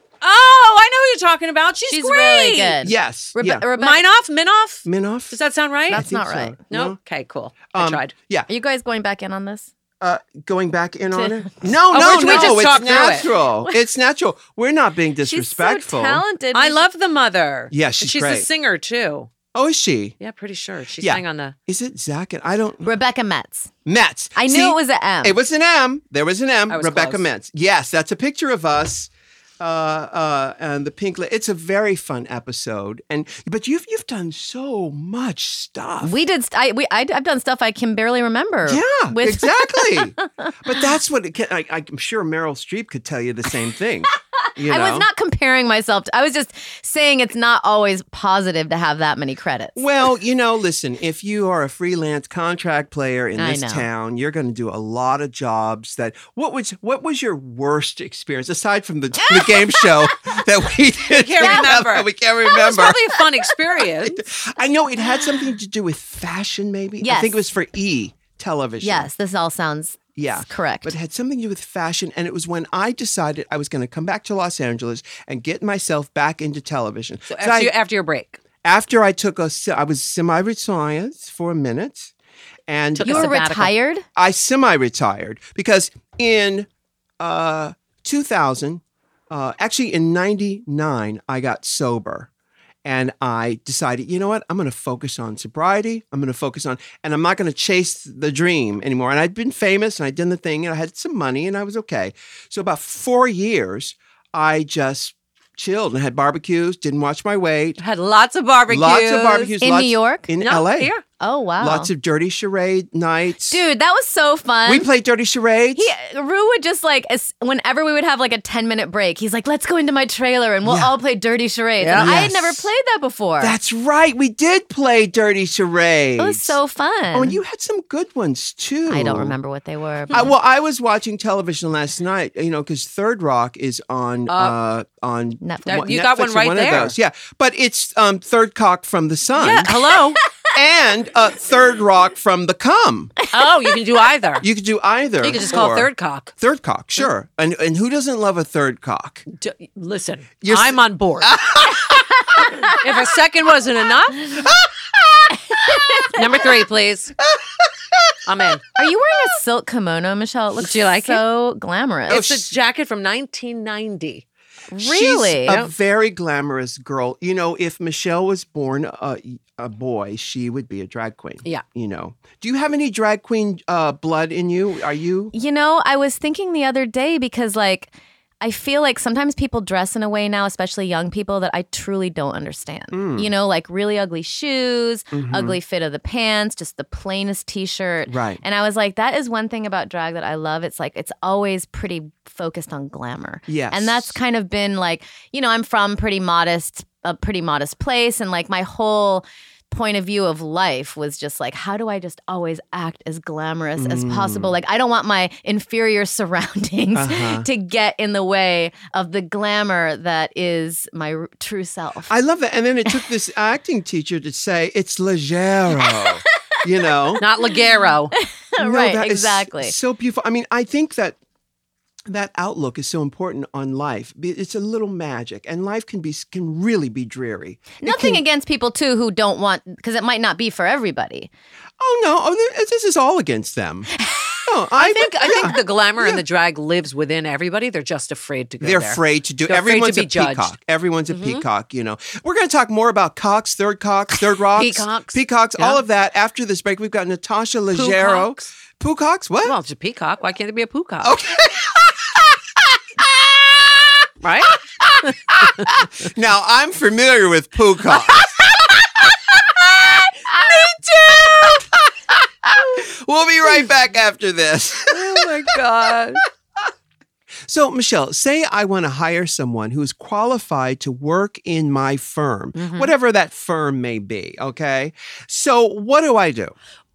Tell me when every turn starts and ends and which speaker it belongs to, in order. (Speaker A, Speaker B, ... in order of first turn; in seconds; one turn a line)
Speaker A: 0.2-2.8
Speaker B: 1.9-4.0
Speaker C: 2.8-3.6
Speaker A: 3.7-6.0
Speaker C: 4.8-5.4
Speaker B: 5.9-6.6
Speaker C: 5.9-7.0
Speaker A: 6.7-8.1
Speaker C: 7.7-8.5
Speaker B: 8.5-9.7
Speaker C: 10.0-16.2
Speaker B: 11.1-11.5
Speaker A: 11.9-13.3
Speaker B: 12.3-12.6
Speaker B: 15.2-16.8
Speaker A: 16.5-19.3
Speaker C: 17.7-18.5
Speaker C: 19.5-20.1
Speaker A: 20.2-21.5
Speaker C: 21.0-22.8
Speaker B: 22.8-23.7
Speaker C: 23.9-36.1
Speaker B: 24.4-25.4
Speaker A: 26.7-27.2
Speaker B: 36.0-40.5
Speaker C: 38.6-45.1
Speaker B: 44.6-49.8
Speaker C: 49.8-63.2
Speaker B: 53.4-53.9
Speaker A: 61.1-64.3
Speaker C: 64.0-69.1
Speaker B: 67.0-67.4
Speaker B: 68.8-71.0
Speaker C: 70.2-77.7
Speaker A: 77.3-78.4
Speaker C: 78.6-82.1
Speaker C: 82.7-83.4
Speaker A: 83.0-83.7
Speaker B: 83.0-84.0
Speaker C: 84.2-86.7
Speaker C: 87.2-92.3
Speaker C: 92.8-107.8
Speaker A: 107.8-109.5
Speaker C: 108.7-110.9
Speaker B: 109.6-110.3
Speaker A: 110.4-111.0
Speaker B: 111.2-111.9
Speaker C: 111.6-113.6
Speaker B: 113.5-114.9
Speaker C: 114.7-115.9
Speaker B: 115.7-123.5
Speaker C: 120.6-121.0
Speaker A: 121.8-122.1
Speaker C: 121.9-122.7
Speaker C: 123.4-126.5
Speaker B: 126.2-127.4
Speaker C: 127.1-129.3
Speaker B: 128.9-130.3
Speaker C: 130.1-139.8
Speaker A: 134.3-134.6
Speaker B: 135.4-135.8
Speaker A: 135.7-136.9
Speaker A: 139.3-140.2
Speaker C: 140.5-143.1
Speaker A: 143.3-144.4
Speaker C: 144.4-149.2
Speaker A: 145.2-146.3
Speaker A: 149.3-151.4
Speaker C: 150.4-152.0
Speaker A: 152.6-154.4
Speaker C: 154.4-155.4
Speaker A: 156.1-157.2
Speaker C: 157.3-158.2
Speaker A: 158.2-158.7
Speaker B: 158.8-162.2
Speaker A: 160.6-161.2
Speaker C: 162.1-162.5
Speaker A: 162.1-164.2
Speaker B: 164.7-165.6
Speaker C: 164.8-175.3
Speaker B: 175.3-212.1
Speaker C: 182.9-183.3
Speaker C: 185.1-185.6
Speaker C: 188.1-188.4
Speaker C: 193.5-194.2
Speaker C: 203.8-204.5
Speaker C: 206.9-207.5
Speaker C: 212.1-217.2
Speaker A: 217.2-218.1
Speaker B: 218.2-219.7
Speaker C: 218.6-221.2
Speaker C: 222.1-228.2
Speaker B: 227.8-231.3
Speaker C: 231.8-233.9
Speaker B: 234.0-234.4
Speaker C: 234.4-236.2
Speaker A: 234.8-240.5
Speaker C: 238.6-249.6
Speaker A: 241.1-241.4
Speaker A: 244.5-245.8
Speaker A: 247.7-248.4
Speaker A: 249.4-251.2
Speaker C: 251.0-266.2
Speaker A: 254.2-255.8
Speaker A: 258.1-258.9
Speaker A: 259.8-261.6
Speaker C: 267.4-276.5
Speaker A: 272.6-272.9